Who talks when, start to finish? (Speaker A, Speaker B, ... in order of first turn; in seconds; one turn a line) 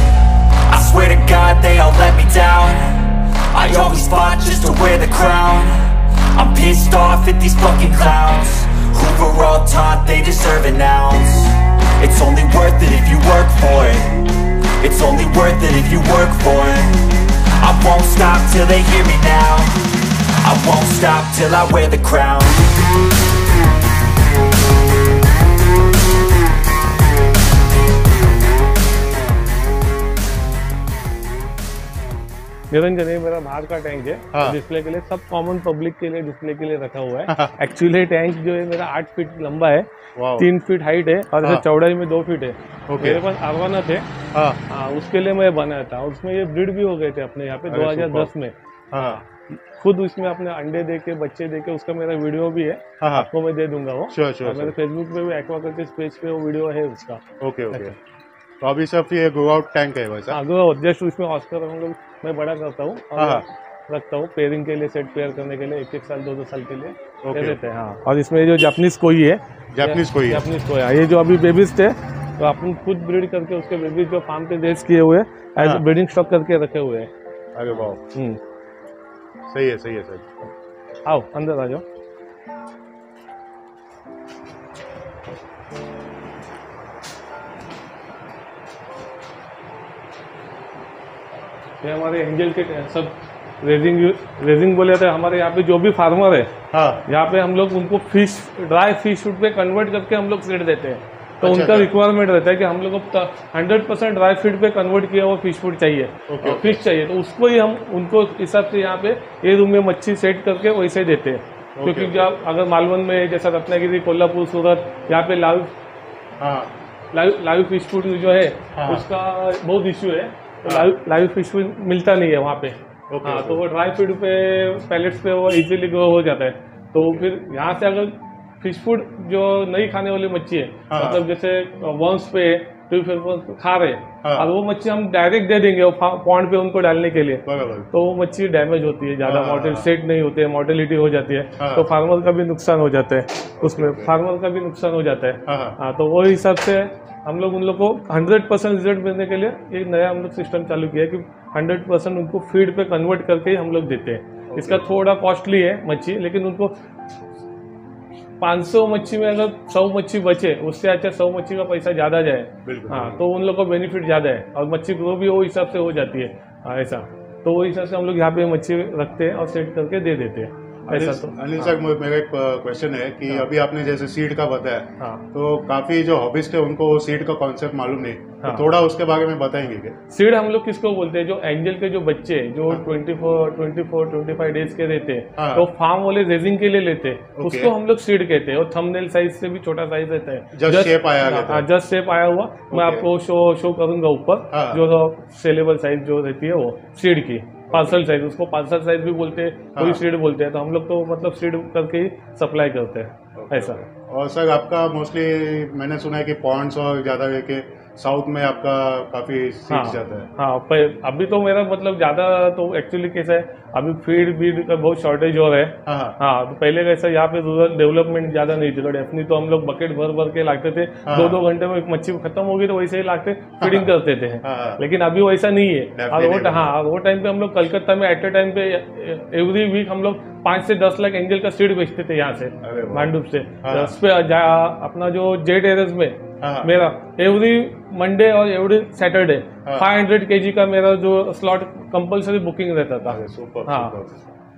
Speaker A: 0.7-19.8
Speaker A: 20.4-23.0
Speaker B: 32.7-44.1
Speaker C: 34.3-34.6
Speaker C: 37.3-37.5
Speaker C: 40.2-40.5
Speaker C: 42.9-43.2
Speaker C: 44.3-44.6
Speaker B: 44.7-48.5
Speaker C: 47.7-48.3
Speaker C: 48.9-49.2
Speaker B: 49.5-58.0
Speaker C: 53.0-53.3
Speaker C: 54.1-54.8
Speaker C: 57.4-58.0
Speaker C: 58.6-60.4
Speaker B: 60.3-77.1
Speaker C: 63.2-63.4
Speaker C: 67.2-67.7
Speaker C: 69.7-70.5
Speaker C: 77.5-78.0
Speaker B: 78.1-78.4
Speaker C: 79.5-80.3
Speaker B: 81.1-81.8
Speaker B: 91.8-96.5
Speaker C: 96.7-97.0
Speaker B: 97.1-115.7
Speaker C: 101.4-101.9
Speaker C: 106.3-106.8
Speaker C: 111.8-112.3
Speaker C: 116.4-116.8
Speaker B: 117.1-156.8
Speaker C: 118.8-119.1
Speaker C: 120.6-121.0
Speaker C: 123.1-123.6
Speaker C: 127.0-127.3
Speaker C: 130.9-131.3
Speaker C: 134.2-134.5
Speaker C: 137.4-137.9
Speaker C: 139.3-139.9
Speaker C: 141.6-141.9
Speaker C: 143.6-144.2
Speaker C: 145.5-145.8
Speaker C: 154.5-154.8
Speaker B: 158.4-171.8
Speaker C: 162.6-163.2
Speaker C: 170.9-180.0
Speaker B: 175.0-175.3
Speaker B: 180.1-203.8
Speaker C: 185.4-185.7
Speaker C: 187.4-187.7
Speaker C: 190.5-191.7
Speaker C: 192.7-193.1
Speaker C: 194.5-194.8
Speaker C: 197.7-198.0
Speaker C: 199.8-200.0
Speaker C: 203.4-210.3
Speaker B: 209.7-244.0
Speaker C: 215.8-216.2
Speaker C: 221.1-221.4
Speaker C: 223.6-223.9
Speaker C: 224.4-224.8
Speaker C: 225.9-226.7
Speaker C: 232.6-233.9
Speaker C: 236.4-236.8
Speaker C: 239.7-239.9
Speaker C: 243.1-244.3